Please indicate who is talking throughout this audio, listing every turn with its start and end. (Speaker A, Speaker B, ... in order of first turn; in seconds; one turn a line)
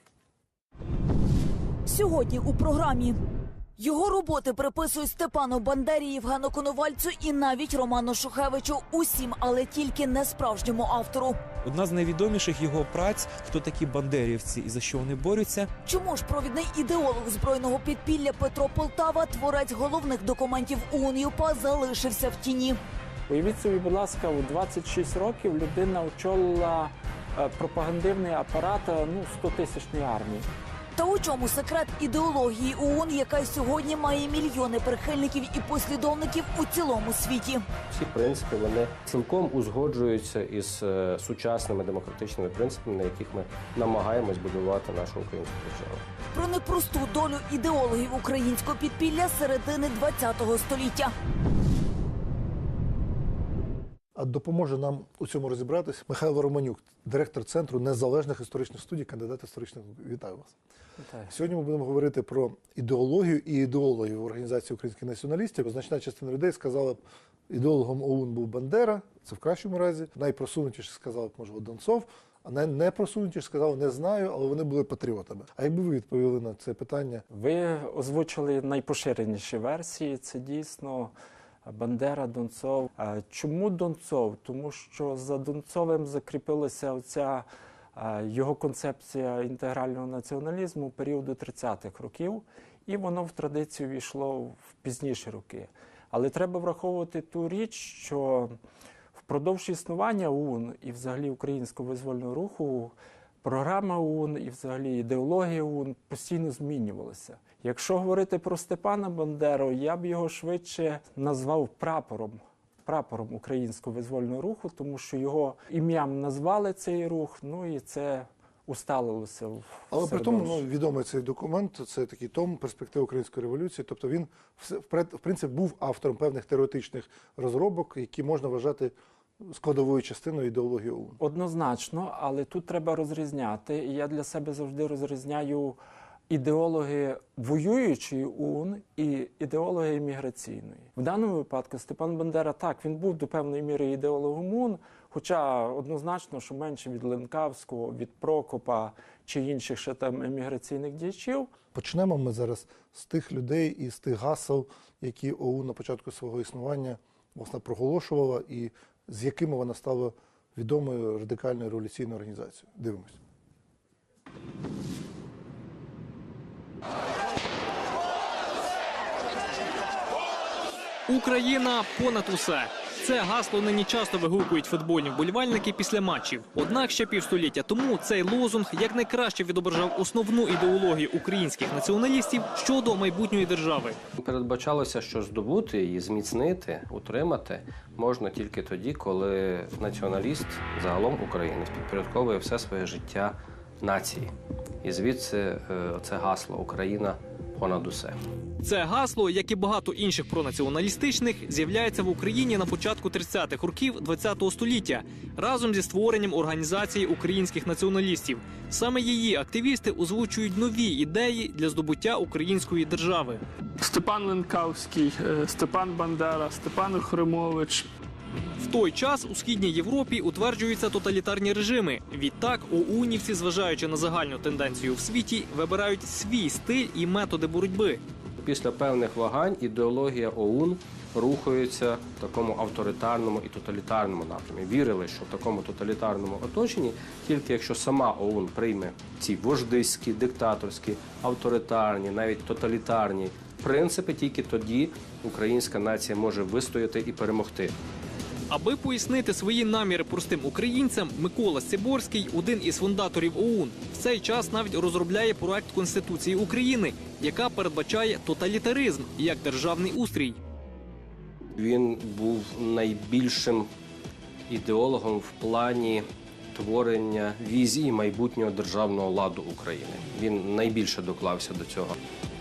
Speaker A: 1.9-3.2
Speaker A: 3.8-11.4
Speaker B: 11.6-15.7
Speaker A: 15.8-22.8
Speaker C: 23.3-30.5
Speaker A: 31.0-37.6
Speaker D: 37.9-46.0
Speaker A: 46.3-51.1
Speaker E: 54.1-60.5
Speaker C: 61.0-61.3
Speaker E: 61.3-77.3
Speaker C: 77.3-81.1
Speaker C: 81.7-98.6
Speaker C: 99.3-120.6
Speaker E: 119.9-131.2
Speaker C: 131.2-151.5
Speaker E: 151.7-163.2
Speaker F: 171.1-184.0
Speaker D: 184.2-198.2
Speaker F: 198.6-213.4
Speaker G: 213.8-217.9
Speaker F: 218.6-228.0
Speaker D: 228.4-247.8
Speaker F: 248.5-260.4
Speaker D: 261.5-263.7
Speaker D: 264.5-272.0